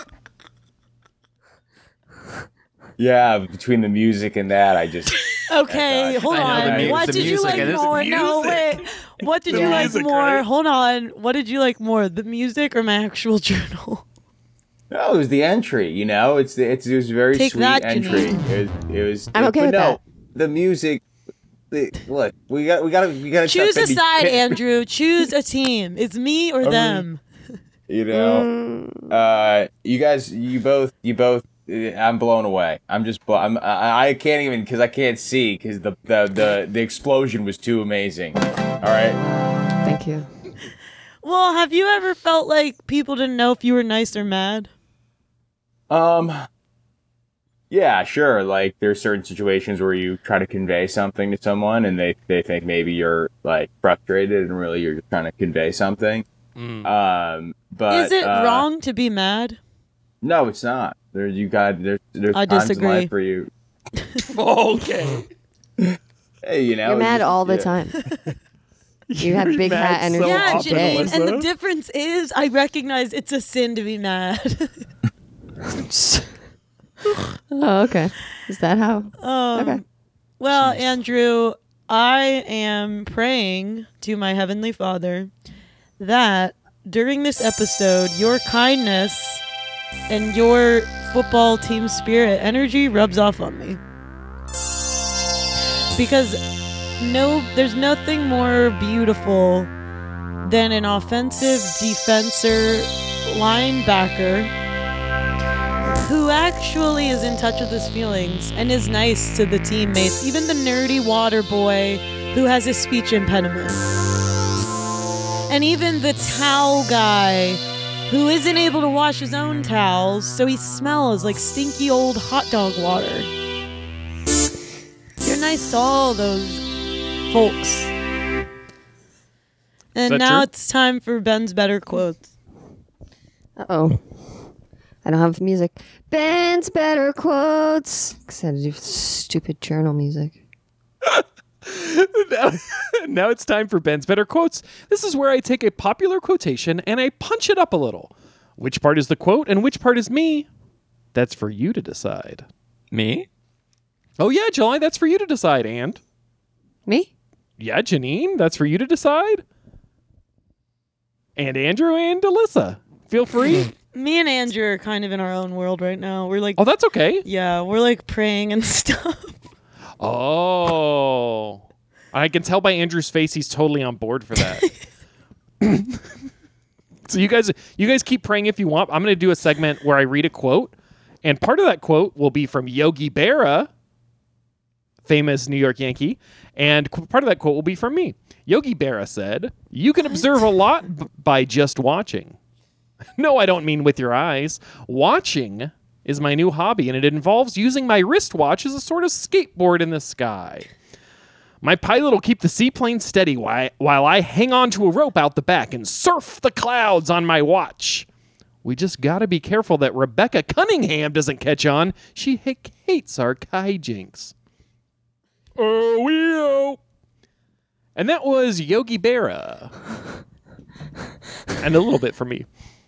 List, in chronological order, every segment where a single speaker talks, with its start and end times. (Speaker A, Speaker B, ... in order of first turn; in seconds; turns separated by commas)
Speaker A: 3.0-7.3, Speaker B: 5.5-14.0, Speaker C: 6.3-8.4, Speaker D: 6.3-8.8, Speaker D: 9.5-10.4, Speaker E: 9.5-9.9, Speaker A: 14.9-21.0, Speaker B: 17.3-18.4, Speaker E: 19.3-20.0, Speaker A: 21.7-24.6, Speaker B: 23.4-27.2, Speaker A: 26.6-27.0, Speaker A: 27.9-28.5, Speaker E: 28.1-29.1, Speaker A: 29.1-39.2, Speaker E: 39.1-40.3, Speaker B: 41.2-44.7, Speaker A: 45.9-46.5, Speaker A: 47.7-56.2, Speaker D: 56.5-56.9, Speaker A: 56.8-58.7, Speaker B: 57.9-59.6, Speaker A: 60.2-63.5, Speaker B: 62.3-63.1, Speaker D: 64.2-65.2, Speaker A: 65.8-67.7, Speaker E: 66.8-68.0, Speaker D: 69.1-71.5, Speaker E: 69.2-71.1, Speaker B: 70.2-74.7, Speaker E: 75.7-76.3, Speaker E: 77.5-79.8, Speaker B: 79.2-79.8, Speaker B: 80.4-85.3, Speaker B: 86.0-89.4, Speaker B: 90.1-93.8, Speaker B: 96.0-96.4, Speaker B: 97.0-99.7, Speaker B: 100.4-104.5, Speaker B: 106.0-113.8, Speaker B: 115.5-123.3, Speaker B: 125.2-126.6, Speaker B: 127.3-127.9, Speaker B: 129.9-132.3, Speaker D: 130.1-130.5, Speaker E: 133.6-134.0, Speaker E: 135.0-140.4, Speaker D: 141.0-150.5, Speaker D: 151.1-152.4, Speaker C: 152.9-153.3, Speaker D: 154.2-156.0, Speaker D: 157.6-159.4, Speaker D: 161.3-163.7, Speaker B: 163.9-166.6, Speaker D: 166.6-167.2, Speaker B: 167.2-169.4, Speaker D: 170.0-174.7, Speaker D: 175.6-176.1, Speaker D: 177.1-183.7, Speaker D: 185.0-192.3, Speaker D: 193.2-200.7, Speaker D: 201.6-208.1, Speaker D: 208.6-214.3, Speaker D: 215.6-216.8, Speaker D: 217.9-219.7, Speaker D: 221.6-222.5